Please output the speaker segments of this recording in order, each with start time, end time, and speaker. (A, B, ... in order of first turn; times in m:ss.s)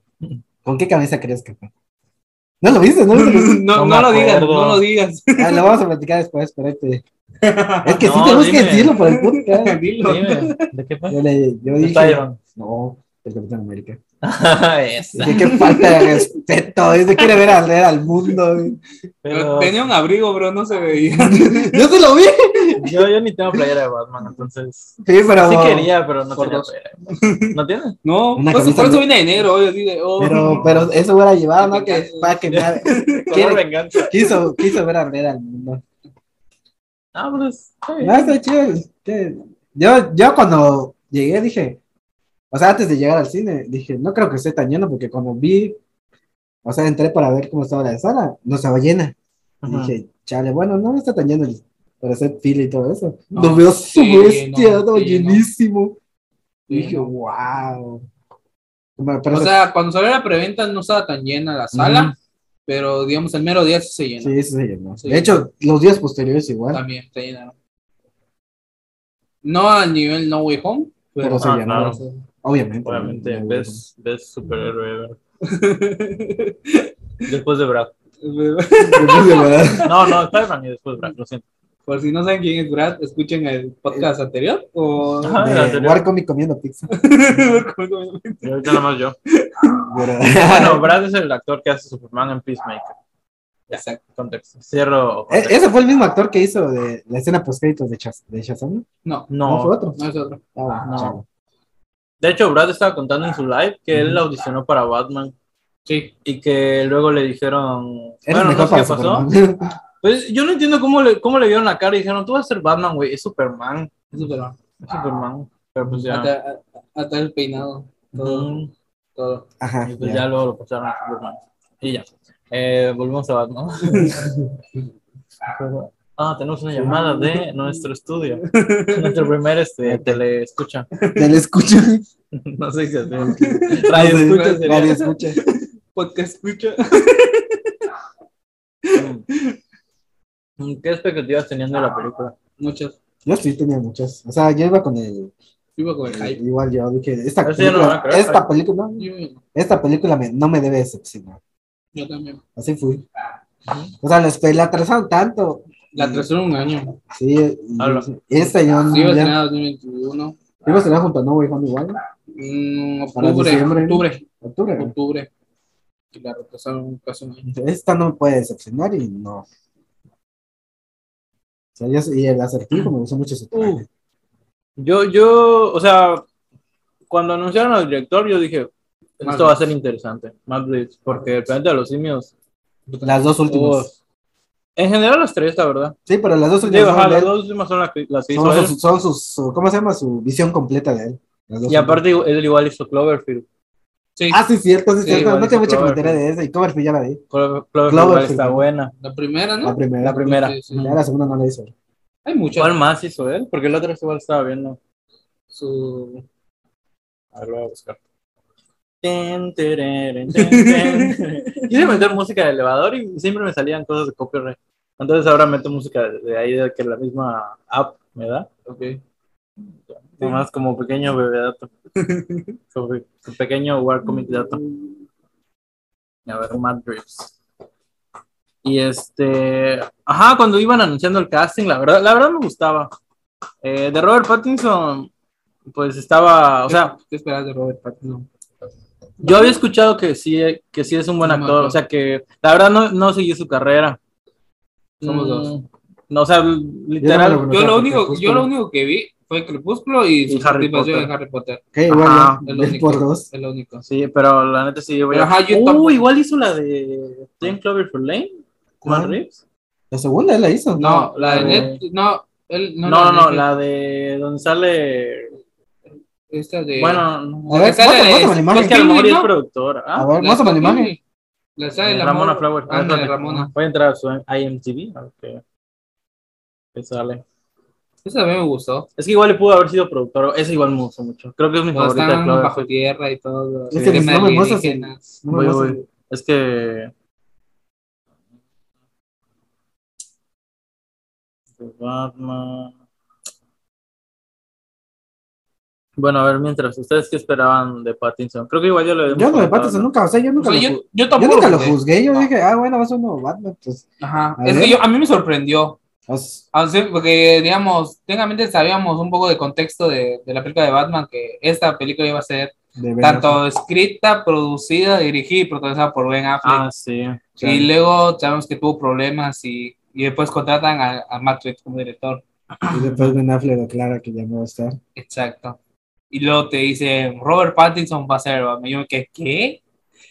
0:00.6-0:01.7 A
0:02.6-0:03.6 A
0:03.1-0:05.7 B
0:03.8-0:04.8 C
0:05.4-0:07.0 A
0:07.4-0:08.4 B
0:07.8-0:09.8 A
0:08.0-0:09.0 C
0:09.1-0:10.7 B
0:10.0-0:11.2 C
0:11.1-0:14.0 A
0:11.8-0:12.4 C
0:14.2-0:15.5 C
0:15.2-0:18.8 A
0:15.2-0:16.3 B
0:17.2-0:17.5 B
0:19.2-0:19.9 C
0:19.3-0:21.8 B
0:21.0-0:23.0 A
0:22.8-0:27.0 C
0:25.0-0:25.9 A
0:26.4-0:30.8 B
0:27.5-0:28.0 C
0:28.4-0:29.1 A
0:30.2-0:35.8 A
0:30.2-0:30.9 C
0:31.6-0:34.6 B
0:33.1-0:34.4 C
0:37.1-0:38.3 C
0:38.0-0:41.8 A
0:42.5-0:45.8 A
0:46.6-0:49.1 A
0:49.6-0:49.9 C
0:49.6-0:56.0 A
0:53.3-0:55.4 B
0:56.7-0:57.1 B
0:56.7-0:58.0 A
0:59.0-0:59.7 A
0:59.3-1:02.1 B
1:01.8-1:02.1 A
1:02.7-1:04.3 B
1:04.2-1:06.8 A
1:05.0-1:05.4 B
1:06.7-1:07.5 B
1:09.4-1:12.2 B
1:11.2-1:12.0 C
1:11.2-1:13.8 A
1:12.8-1:15.2 C
1:15.4-1:16.9 B
1:17.2-1:17.9 C
1:18.2-1:20.3 B
1:18.9-1:19.9 A
1:19.8-1:21.4 C
1:21.9-1:25.4 B
1:25.2-1:26.0 C
1:25.4-1:26.9 A
1:26.9-1:28.8 B
1:28.4-1:29.1 C
1:29.4-1:29.8 B
1:29.9-1:30.9 A
1:30.3-1:32.9 C
1:33.7-1:35.6 C
1:33.7-1:34.0 B
1:35.3-1:38.8 A
1:39.0-1:39.3 B
1:39.3-1:39.7 C
1:39.4-1:40.0 A
1:40.0-1:40.4 B
1:40.6-1:41.2 A
1:40.8-1:41.2 C
1:42.2-1:45.3 C
1:43.9-1:44.2 A
1:45.8-1:46.1 B
1:46.2-1:49.2 C
1:48.2-1:49.7 A
1:50.0-1:53.9 C
1:54.1-1:54.6 B
1:54.8-1:56.3 C
1:55.9-1:58.5 B
1:58.2-1:58.7 C
1:59.2-1:59.4 B
1:59.6-2:00.2 A
1:59.8-2:04.2 C
2:03.8-2:04.3 B
2:05.5-2:10.9 C
2:06.8-2:07.2 A
2:08.4-2:09.2 B
2:09.8-2:10.2 A
2:11.0-2:11.4 B
2:11.2-2:12.0 A
2:12.3-2:15.0 C
2:13.2-2:17.7 B
2:13.3-2:15.4 A
2:18.9-2:19.5 B
2:19.0-2:19.2 C
2:20.6-2:22.3 C
2:22.6-2:23.0 B
2:23.2-2:25.3 A
2:25.8-2:26.4 B
2:26.1-2:31.4 A
2:27.4-2:28.4 C
2:29.0-2:29.4 B
2:31.9-2:32.4 B
2:32.6-2:33.0 A
2:33.7-2:33.9 C
2:34.0-2:36.3 A
2:35.9-2:36.9 B
2:37.1-2:39.4 A
2:37.8-2:38.1 C
2:38.9-2:40.4 B
2:40.6-2:42.0 A
2:42.3-2:44.2 B
2:43.2-2:44.9 A
2:44.8-2:45.3 B
2:46.1-2:47.4 B
2:47.4-2:49.4 A
2:51.8-2:53.8 A
2:53.5-2:53.8 C
2:54.8-2:56.2 C
2:57.1-3:02.3 C
2:59.2-2:59.6 B
3:02.9-3:03.2 B
3:03.0-3:03.9 A
3:03.5-3:03.9 C
3:04.8-3:05.9 C
3:06.1-3:07.3 A
3:06.6-3:08.7 C
3:08.3-3:12.0 A
3:11.7-3:13.4 C
3:14.2-3:14.4 B
3:14.3-3:17.2 A
3:15.0-3:15.4 B
3:15.1-3:16.2 C
3:17.3-3:18.9 C
3:17.9-3:18.6 A
3:19.0-3:20.9 B
3:19.6-3:21.7 A
3:20.0-3:21.0 C
3:22.2-3:22.7 B
3:22.6-3:24.8 C
3:25.5-3:26.2 B
3:27.3-3:28.0 C
3:29.0-3:38.5 C
3:30.3-3:31.2 B
3:38.6-3:39.0 B
3:39.9-3:41.7 C
3:42.0-3:42.6 B
3:42.7-3:44.6 C
3:44.2-3:44.8 B
3:46.3-3:47.3 C
3:48.6-3:52.9 C
3:53.6-3:55.1 C
3:55.7-3:56.9 C
3:56.7-3:58.2 B
3:59.2-4:04.0 C
3:59.2-3:59.6 B
4:01.2-4:01.8 B
4:05.0-4:05.5 B
4:05.0-4:07.4 C
4:07.0-4:08.5 A
4:07.5-4:11.6 B
4:10.3-4:11.1 C
4:11.7-4:13.3 A
4:11.9-4:12.4 C
4:12.4-4:13.8 B
4:13.8-4:19.4 C
4:15.1-4:16.0 B
4:18.8-4:19.2 A
4:19.9-4:21.7 A
4:20.8-4:23.4 B
4:21.1-4:21.8 C
4:22.8-4:25.3 C
4:26.3-4:29.3 B
4:26.8-4:27.8 C
4:27.5-4:28.7 A
4:28.5-4:30.1 C
4:30.0-4:30.9 A
4:30.2-4:31.0 B
4:31.6-4:33.5 B
4:31.8-4:35.4 C
4:36.7-4:37.2 C
4:38.0-4:38.9 B
4:39.0-4:42.7 C
4:41.7-4:45.0 B
4:43.7-4:45.8 A
4:43.7-4:44.1 C
4:45.3-4:46.9 C
4:51.6-4:52.7 C
4:56.0-4:59.9 C
4:59.1-5:03.8 A
5:00.4-5:01.8 B
5:04.0-5:05.8 B
5:04.4-5:04.8 A
5:06.1-5:06.4 A
5:06.5-5:16.6 B
5:12.8-5:13.4 A
5:16.4-5:17.2 C
5:17.4-5:17.7 A
5:17.4-5:23.1 B
5:22.7-5:24.8 A
5:25.0-5:25.6 B
5:26.1-5:29.6 B